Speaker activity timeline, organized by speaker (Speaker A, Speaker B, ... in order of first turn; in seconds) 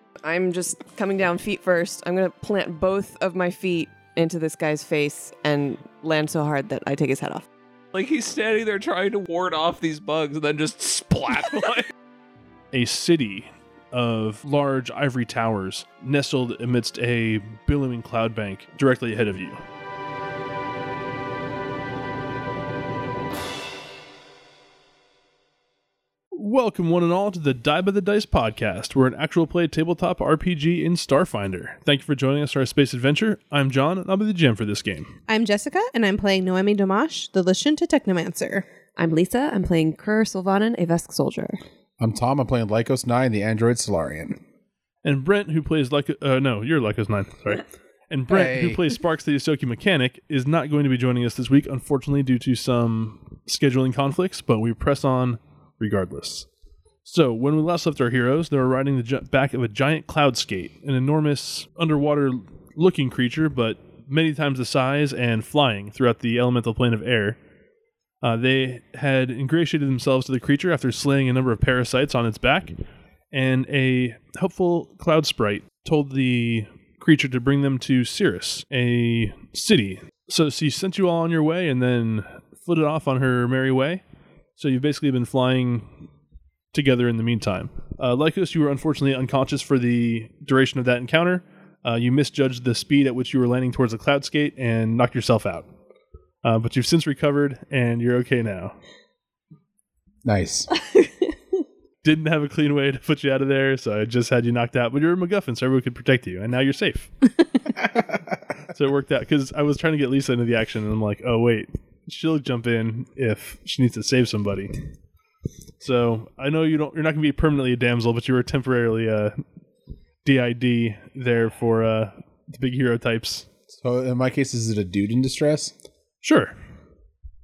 Speaker A: 0.2-7.5, 39.0-41.6
Speaker B: 7.9-11.9
Speaker C: 12.7-19.6, 26.3-35.1, 45.0-56.5, 57.0-67.4, 68.2-72.7, 73.3-84.0, 84.6-85.9, 86.7-95.7, 96.4-98.7, 102.0-107.3, 108.7-114.7, 115.8-119.3, 120.2-123.5, 126.2-126.5
Speaker D: 35.3-38.6
Speaker E: 42.0-44.4, 48.3-48.9, 100.2-100.7, 123.7-125.7